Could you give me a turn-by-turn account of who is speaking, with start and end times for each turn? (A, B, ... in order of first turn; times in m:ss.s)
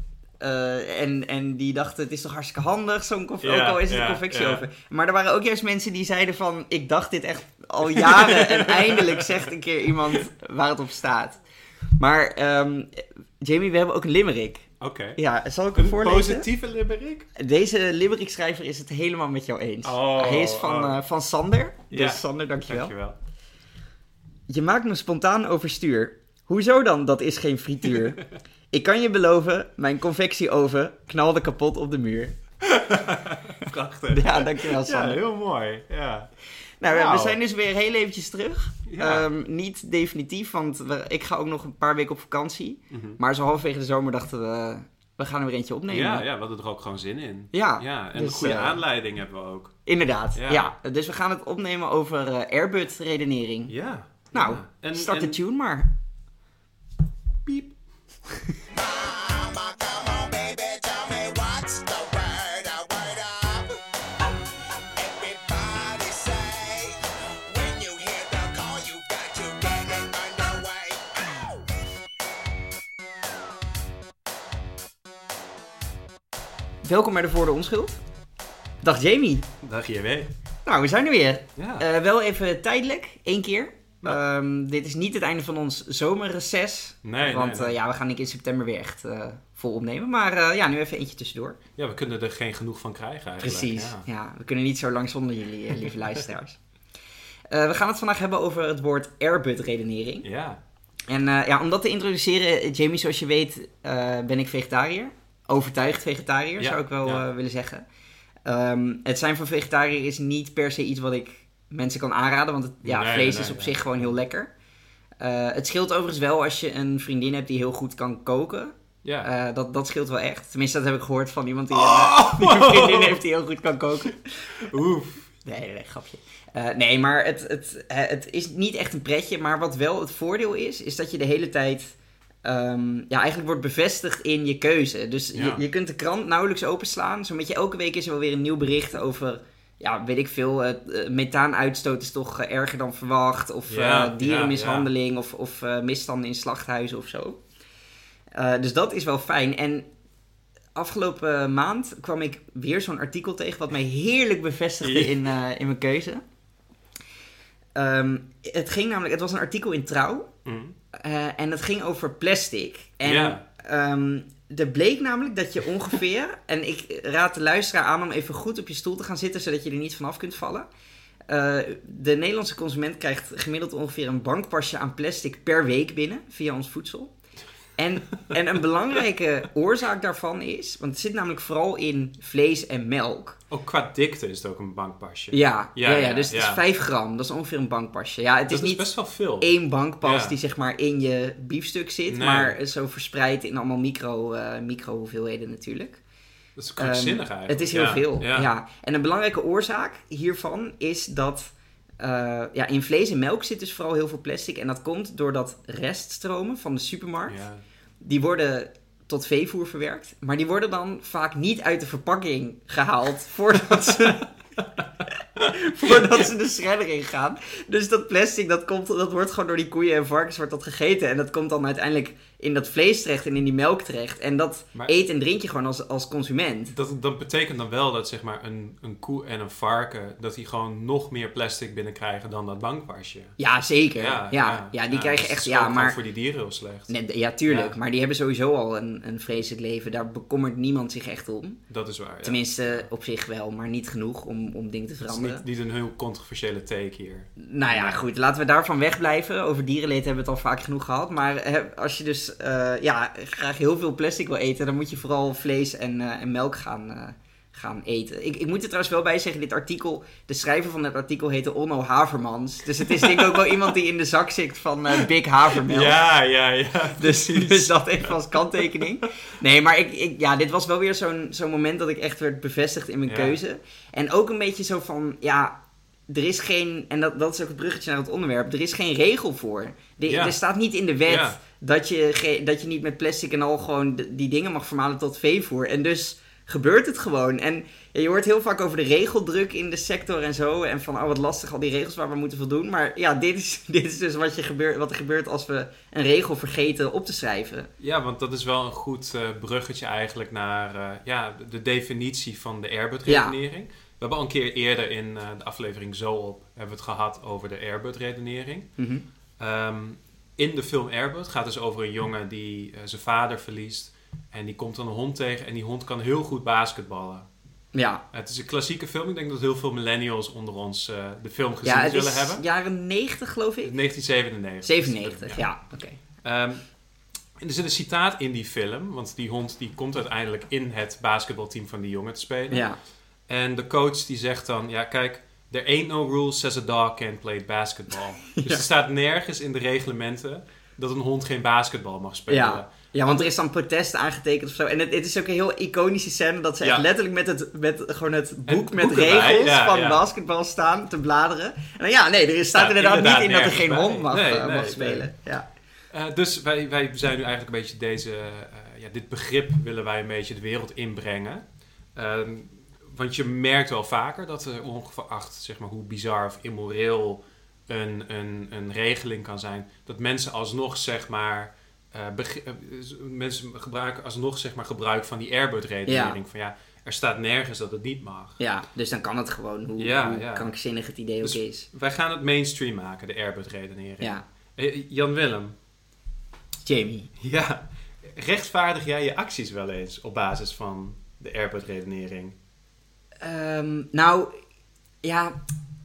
0:00.4-0:11.4 A
0:03.4-0:04.6 B
0:07.9-0:09.4 B
0:12.0-0:16.5 A
0:14.8-0:15.2 B
0:15.8-0:17.3 B
0:17.4-0:22.9 A
0:19.8-0:21.0 B
0:21.9-0:23.2 B
0:24.5-0:32.4 A
0:32.7-0:36.3 B
0:34.1-0:35.2 A
0:36.8-0:46.3 A
0:36.9-0:37.4 B
0:38.9-0:39.3 B
0:42.9-0:43.2 B
0:45.9-0:49.8 B
0:47.5-0:48.8 A
0:49.9-0:53.7 A
0:50.3-0:50.7 B
0:53.7-0:55.4 B
0:54.3-0:55.9 A
0:57.5-0:57.7 B
0:58.7-1:03.8 C
1:05.0-1:11.6 C
1:16.8-1:18.0 A
1:18.8-1:19.5 A
1:19.6-1:20.3 B
1:20.7-1:31.6 A
1:21.6-1:21.9 B
1:27.0-1:27.8 B
1:31.8-1:34.0 B
1:33.4-1:36.6 A
1:37.5-1:40.3 A
1:40.2-1:40.6 B
1:41.1-1:47.8 A
1:46.6-1:47.2 B
1:48.5-1:54.5 A
1:52.8-1:53.9 B
1:55.2-2:04.5 A
1:59.0-1:59.3 B
2:01.7-2:03.2 B
2:04.6-2:05.3 B
2:05.4-2:27.4 A
2:15.3-2:15.6 B
2:23.7-2:24.9 B
2:28.3-2:29.9 A
2:30.8-2:36.2 A
2:34.8-2:35.2 B
2:37.8-2:40.3 A
2:40.4-2:40.8 B
2:40.9-2:50.7 A
2:43.0-2:43.4 B
2:51.3-2:57.1 A
2:57.8-3:03.4 A
3:03.5-3:06.6 B
3:05.3-3:16.0 A
3:08.5-3:10.4 B
3:12.1-3:12.6 B
3:16.6-3:18.5 B
3:16.8-3:27.4 A
3:27.3-3:27.6 B
3:28.0-3:34.3 A
3:35.4-3:46.8 A
3:46.7-3:53.4 B
3:53.4-3:56.0 A
3:54.0-3:57.0 B
3:56.9-4:01.6 A
3:57.5-3:57.8 B
4:01.7-4:02.9 B
4:02.2-4:05.4 A
4:05.0-4:08.1 B
4:07.4-4:26.0 A
4:22.9-4:23.5 B
4:25.6-4:28.8 B
4:27.0-4:35.6 A
4:33.1-4:33.4 B
4:36.1-4:57.7 A
4:40.1-4:40.4 B
4:41.1-4:41.4 B
4:57.8-5:08.7 B
5:03.1-5:03.4 A
5:08.8-5:09.0 A
5:09.4-5:17.3 B
5:17.7-5:18.0 A
5:18.1-5:22.4 B
5:21.6-5:23.7 A
5:23.6-5:25.4 B
5:24.6-5:26.0 A
5:26.2-5:26.6 B
5:27.4-5:32.7 B
5:32.5-5:32.8 A
5:33.3-5:42.7 B
5:38.3-5:38.7 A
5:42.3-5:55.5 A
5:46.6-5:46.9 B
5:48.5-5:50.0 B
5:52.5-5:55.1 B
5:55.9-6:01.4 B
6:02.0-6:18.4 B
6:15.9-6:16.2 A
6:18.4-6:21.7 A
6:19.8-6:20.5 B
6:21.2-6:25.6 B
6:26.6-6:27.1 A
6:27.2-6:32.4 B
6:33.2-6:34.3 A
6:35.0-6:35.4 A